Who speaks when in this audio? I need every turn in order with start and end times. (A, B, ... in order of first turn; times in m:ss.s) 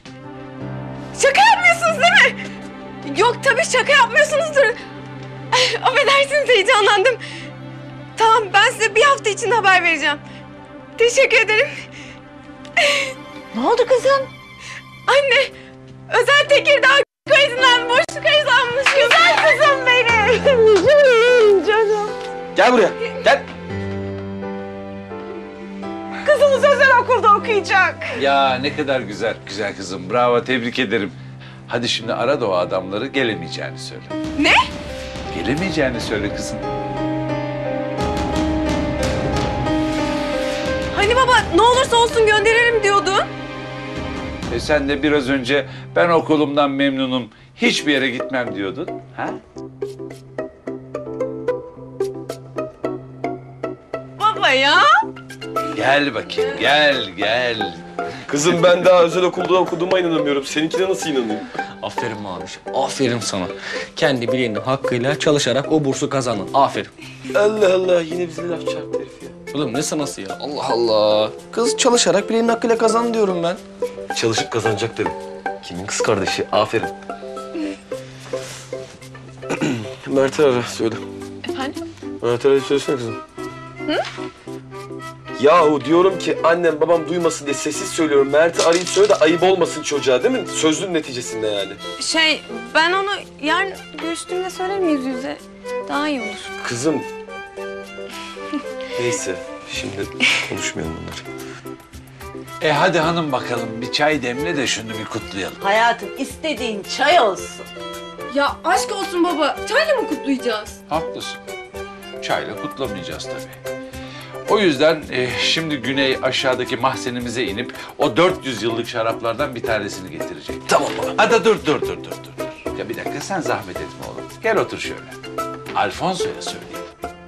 0:01.1-0:02.4 A
0:03.0-0:04.8 A
0:05.5-0:07.2 A
0:08.2-0:10.2 A
0:11.0-0:11.8 A
0:12.8-0:13.1 A
0:13.5-0:14.3 B
0:15.1-0:15.5 A
0:16.1-0:20.2 A
0:19.2-0:22.1 B
0:22.5-0:23.4 C
0:26.3-0:27.9 A
0:28.1-0:31.2 D
0:31.7-0:34.1 D
0:34.4-0:34.6 A
0:35.3-0:36.6 D
0:40.9-0:43.3 A
0:44.5-0:49.4 D
0:54.2-0:54.9 A
0:55.7-0:57.8 D
0:58.3-1:01.4 E
1:01.9-1:06.9 C
1:07.3-1:09.4 E
1:09.5-1:13.6 C
1:14.1-1:16.9 E
1:19.5-1:21.0 E
1:21.4-1:21.8 A
1:22.2-1:23.2 E
1:25.4-1:31.8 E
1:32.0-1:36.5 A
1:36.6-1:37.1 E
1:39.0-1:41.2 E
1:42.6-1:45.6 D
1:45.6-1:47.6 B
1:48.3-1:50.8 A
1:50.9-1:51.4 D
1:52.2-1:53.6 D
1:54.4-2:05.2 D
2:00.7-2:01.1 C
2:05.7-2:06.8 D